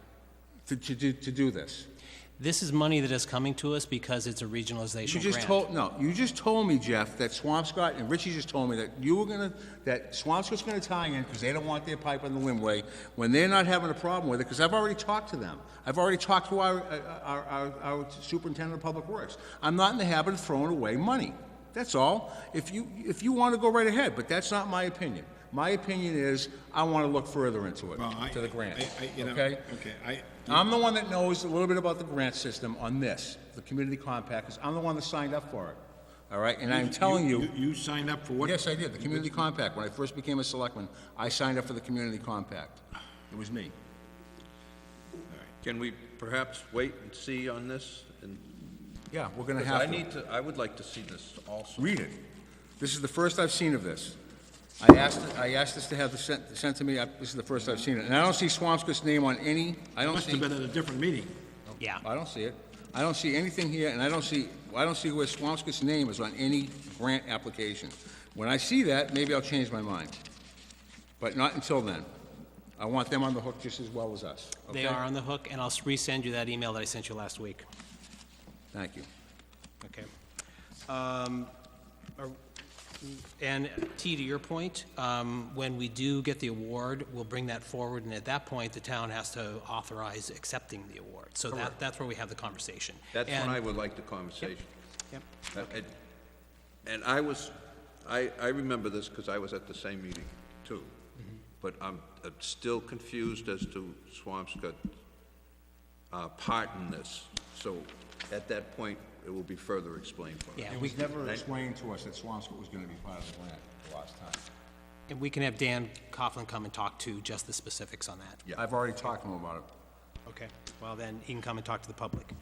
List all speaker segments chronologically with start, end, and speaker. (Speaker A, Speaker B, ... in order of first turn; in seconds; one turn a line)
Speaker A: 0.7-1.9
Speaker B: 2.4-5.7
Speaker A: 5.0-29.7
Speaker C: 27.9-30.6
Speaker A: 30.5-37.5
Speaker C: 36.7-39.3
Speaker A: 38.4-43.8
Speaker D: 45.5-48.5
Speaker A: 49.1-50.0
Speaker D: 49.6-52.0
Speaker A: 51.8-52.2
Speaker A: 52.8-54.2
Speaker A: 54.8-60.5
Speaker C: 60.0-61.4
Speaker B: 61.8-62.0
Speaker A: 62.0-70.2
Speaker A: 71.2-72.1
Speaker A: 72.8-75.0
Speaker B: 74.7-77.7
Speaker A: 78.7-79.1
Speaker B: 79.8-80.1
Speaker B: 80.9-81.5
Speaker B: 83.0-93.6
Speaker D: 93.1-94.7
Speaker D: 95.5-95.9
Speaker D: 96.8-100.9
Speaker D: 101.6-104.9
Speaker D: 106.1-111.5
Speaker B: 110.6-111.0
Speaker A: 110.7-114.4
Speaker B: 115.1-118.4
Speaker A: 118.6-119.7
Speaker B: 120.3-122.3